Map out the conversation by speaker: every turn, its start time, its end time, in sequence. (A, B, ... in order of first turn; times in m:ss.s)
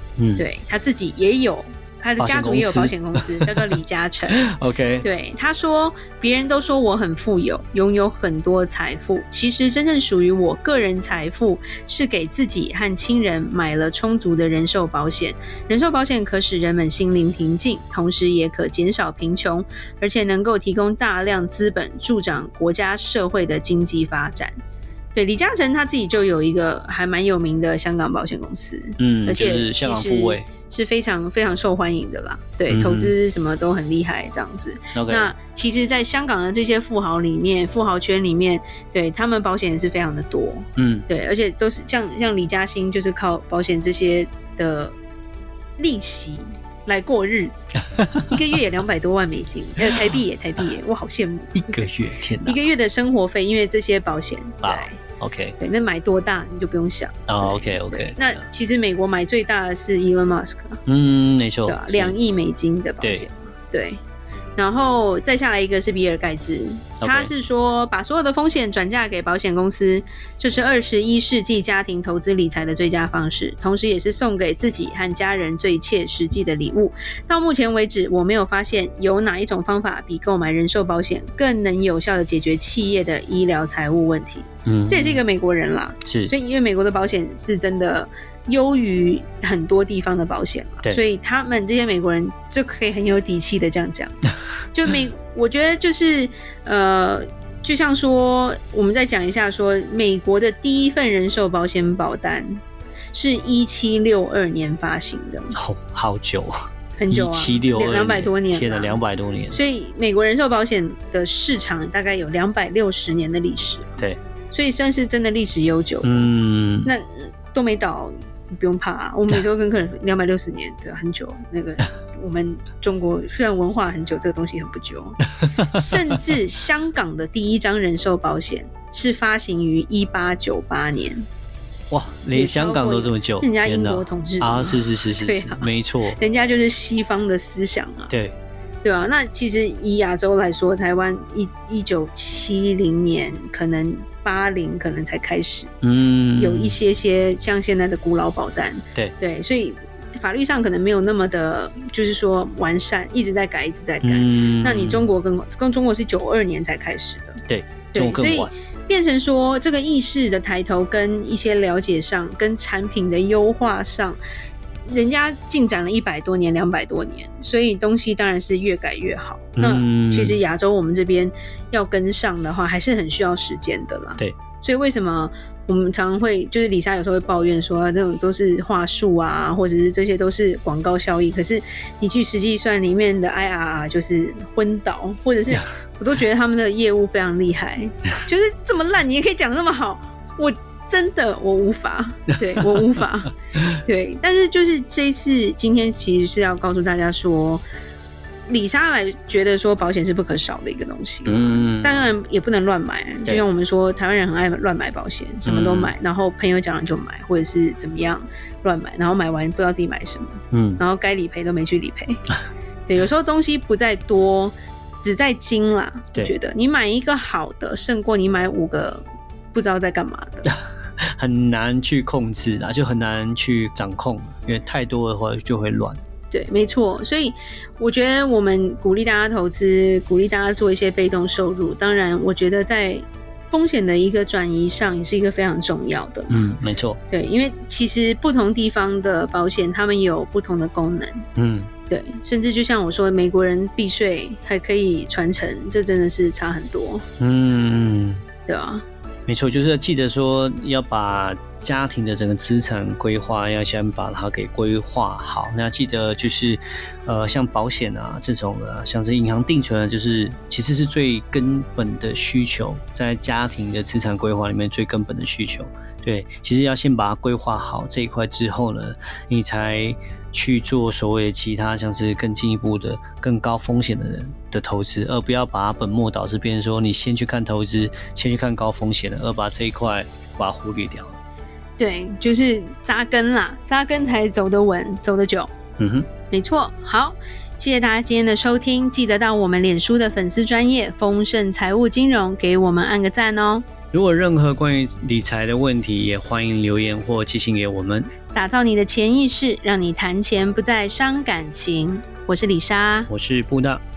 0:00.2-0:00.4 A
0:00.4-0:04.5 B
0:02.2-0:03.7 A
0:04.3-0:05.1 A
0:05.0-0:24.6 B
0:25.1-0:45.0 B
0:29.0-0:30.5 A
0:32.7-0:33.1 A
0:34.9-0:35.3 A
0:40.8-0:41.1 A
0:45.8-0:51.9 B
0:48.0-0:48.3 A
0:51.6-0:52.7 A
0:52.4-0:55.0 B
0:54.6-0:55.6 A
0:55.6-1:00.8 B
0:57.3-0:58.4 A
1:00.9-1:02.2 A
1:01.6-1:04.0 B
1:03.0-1:03.2 A
1:04.6-1:34.2 B
1:07.0-1:07.3 A
1:24.6-1:25.2 A
1:26.0-1:26.3 A
1:34.7-1:42.6 B
1:43.1-1:45.5 B
1:45.5-1:49.6 A
1:47.0-1:49.0 B
1:49.5-1:56.2 B
1:56.0-1:56.9 A
1:56.8-2:11.2 B
2:05.4-2:06.2 A
2:11.9-2:16.2 A
2:12.3-2:18.1 B
2:18.1-2:18.4 A
2:18.8-2:25.7 B
2:25.8-2:26.8 A
2:26.4-2:44.2 B
2:34.0-2:35.0 A
2:37.5-2:38.5 A
2:44.9-3:17.6 B
2:49.6-2:50.4 A
3:12.6-3:13.0 A
3:18.5-3:32.2 B
3:21.2-3:22.1 A
3:25.4-3:25.9 A
3:30.5-3:30.8 A
3:32.9-3:40.5 B
3:40.4-3:46.0 A
3:46.3-3:56.5 B
3:56.3-3:57.0 A
3:57.1-4:01.2 B
4:01.4-4:01.7 A
4:01.9-4:07.0 B
4:07.2-4:08.2 A
4:08.5-4:08.8 B
4:09.3-4:41.2 A
4:41.8-4:45.5 B
4:45.8-4:46.1 A
4:46.3-4:53.6 B
4:53.9-4:58.1 A
4:58.3-5:03.1 B
5:03.1-5:03.8 A